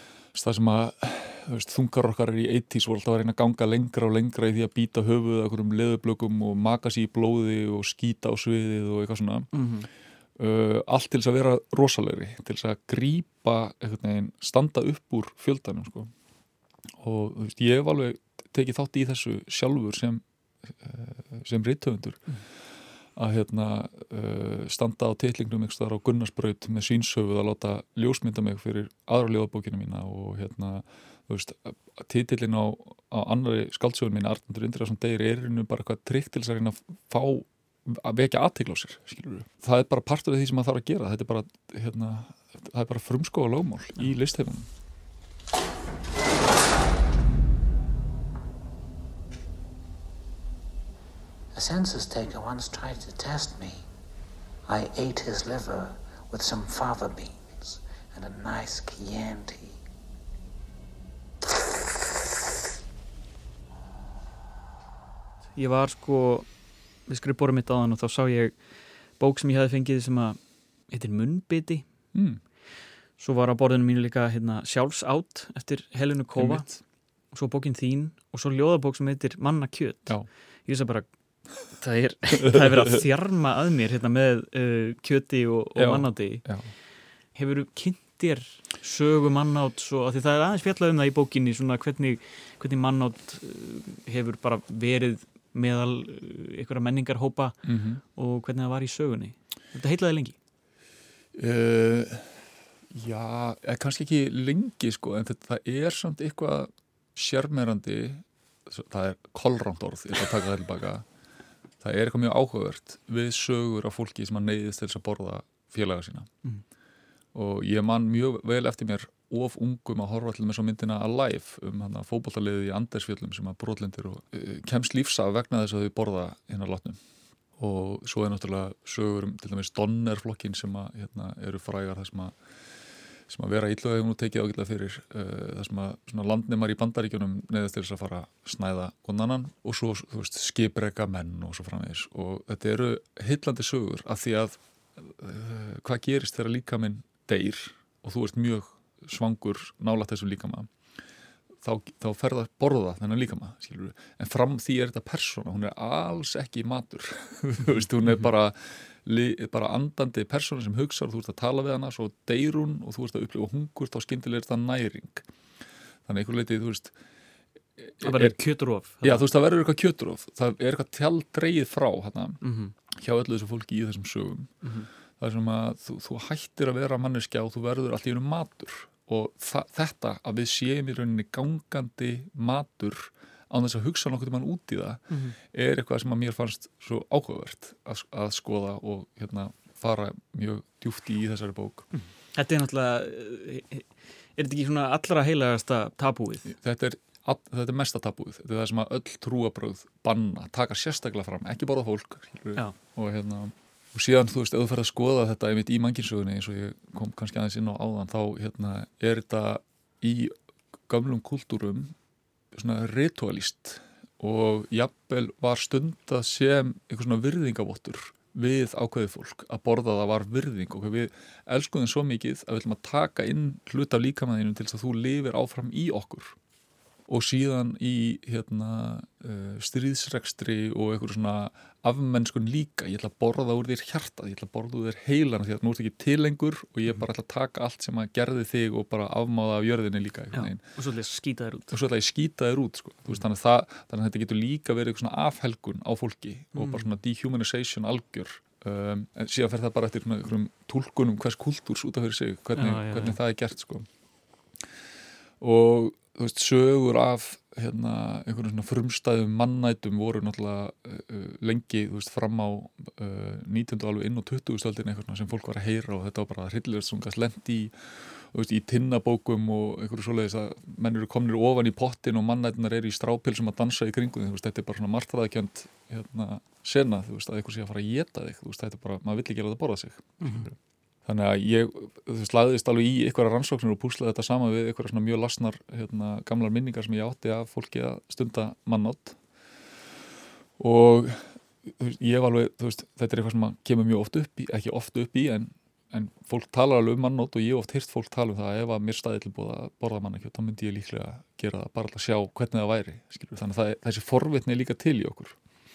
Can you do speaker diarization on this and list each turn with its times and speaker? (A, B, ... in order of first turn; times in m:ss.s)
0:00.3-0:09.5 A
0:09.5-0:09.9 B
0:10.4-0:16.1 A
0:17.0-0:22.4 A
0:23.2-0:44.7 A
0:51.5-0:53.9 C
0:54.7-0:59.8 C
1:05.6-1:06.5 B
1:07.1-1:08.6 B
1:09.2-1:10.4 B
1:10.9-1:11.9 B
1:12.1-1:12.4 A
1:13.2-1:16.7 B
1:16.4-1:16.8 A
1:17.3-1:21.1 B
1:21.6-1:26.5 B
1:25.8-1:26.7 A
1:27.4-1:37.6 B
1:37.6-1:38.0 A
1:38.2-1:40.4 B
1:41.4-1:42.3 A
1:42.9-1:51.1 A
1:51.8-1:56.3 A
1:57.3-2:07.0 A
2:07.6-2:12.4 A
2:13.3-2:30.7 A
2:31.6-2:45.2 A
2:46.1-2:46.9 A
2:47.8-2:48.4 A
2:48.0-2:49.3 B
2:49.0-2:52.4 A
2:52.4-2:52.7 B
2:52.9-2:54.6 A
2:54.6-2:54.9 B
2:55.2-3:11.9 A
3:05.1-3:05.4 B
3:11.9-3:16.5 B
3:16.5-3:30.3 A
3:30.9-3:32.0 A
3:32.5-3:46.4 A
3:47.1-4:00.6 A
4:00.3-4:01.8 B
4:01.7-4:13.9 A
4:06.6-4:06.9 B
4:12.6-4:13.2 B
4:15.4-4:49.2 A
4:40.2-4:40.5 B
4:50.6-5:05.4 A